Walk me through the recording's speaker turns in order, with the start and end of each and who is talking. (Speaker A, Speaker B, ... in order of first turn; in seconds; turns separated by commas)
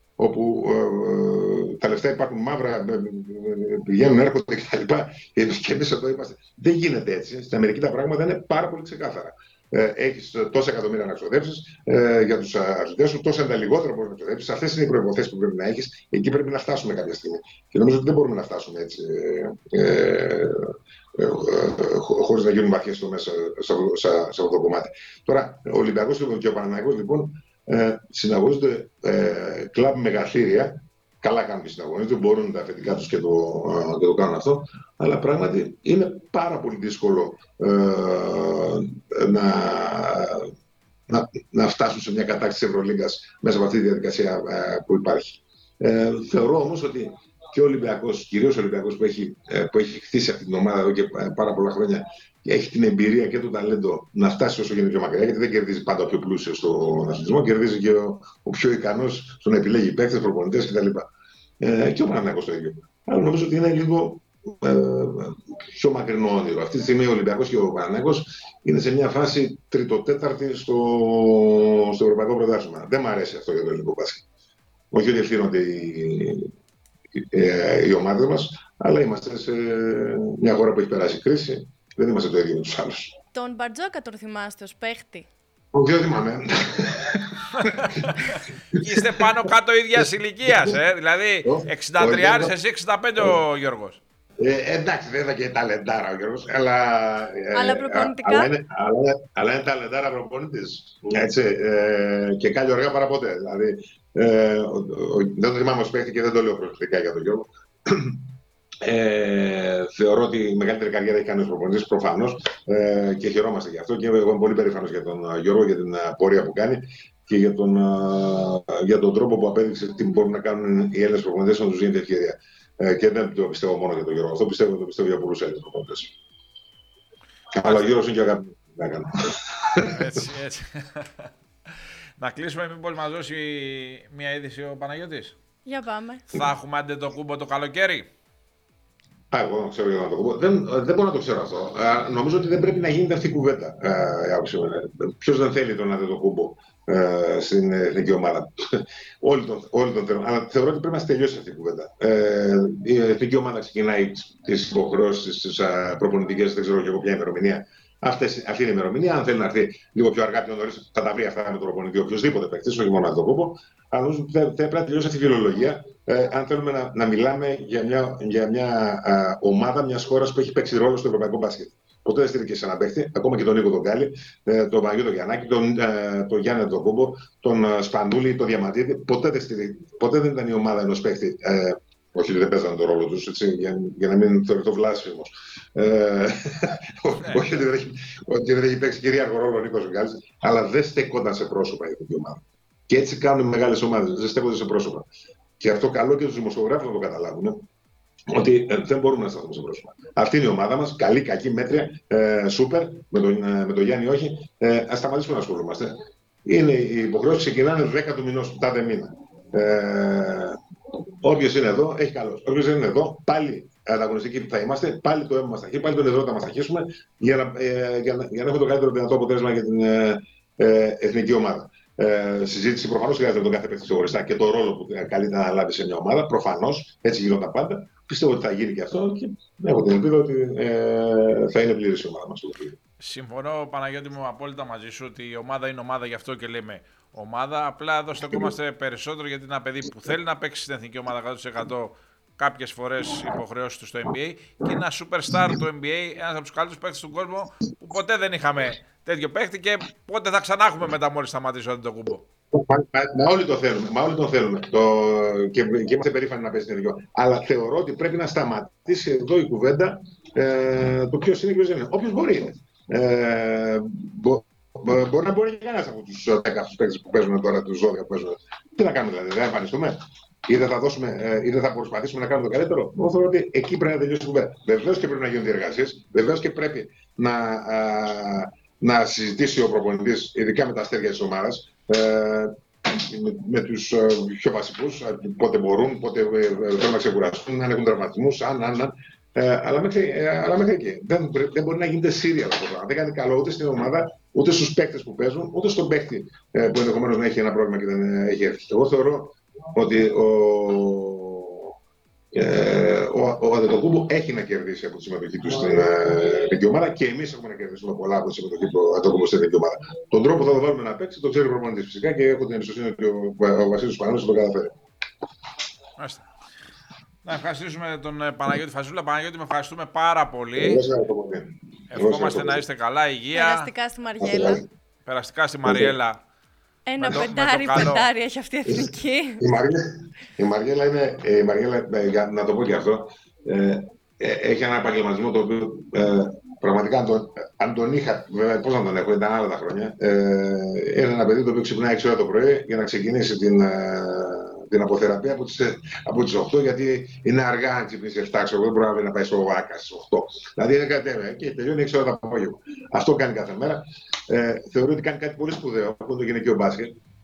Speaker A: 0.2-40.5, Speaker A: 41.1-61.1, Speaker A: 61.6-74.2, Speaker A: 74.9-76.5, Speaker A: 77.1-83.2, Speaker B: 83.3-85.3, Speaker A: 85.7-88.0, Speaker C: 87.5-94.0, Speaker A: 88.7-89.3, Speaker A: 90.0-90.8, Speaker A: 91.4-92.5, Speaker A: 94.4-108.3, Speaker B: 97.5-98.5, Speaker A: 108.8-126.1, Speaker A: 127.5-130.0, Speaker C: 127.6-128.0, Speaker C: 129.8-135.4, Speaker B: 135.7-136.3, Speaker C: 136.3-138.1, Speaker A: 139.3-195.1, Speaker C: 187.2-187.5, Speaker A: 195.6-197.7, Speaker A: 198.3-210.6, Speaker A: 211.2-232.8, Speaker C: 233.0-252.3, Speaker A: 252.5-301.8, Speaker A: 302.3-314.7, Speaker C: 316.0-316.3, Speaker C: 317.2-320.8, Speaker A: 320.6-322.6, Speaker C: 321.9-323.7, Speaker B: 323.3-324.6, Speaker A: 324.2-324.7, Speaker C: 325.1-326.2, Speaker A: 325.7-325.9, Speaker B: 326.9-329.5, Speaker C: 327.0-328.1, Speaker A: 328.7-357.0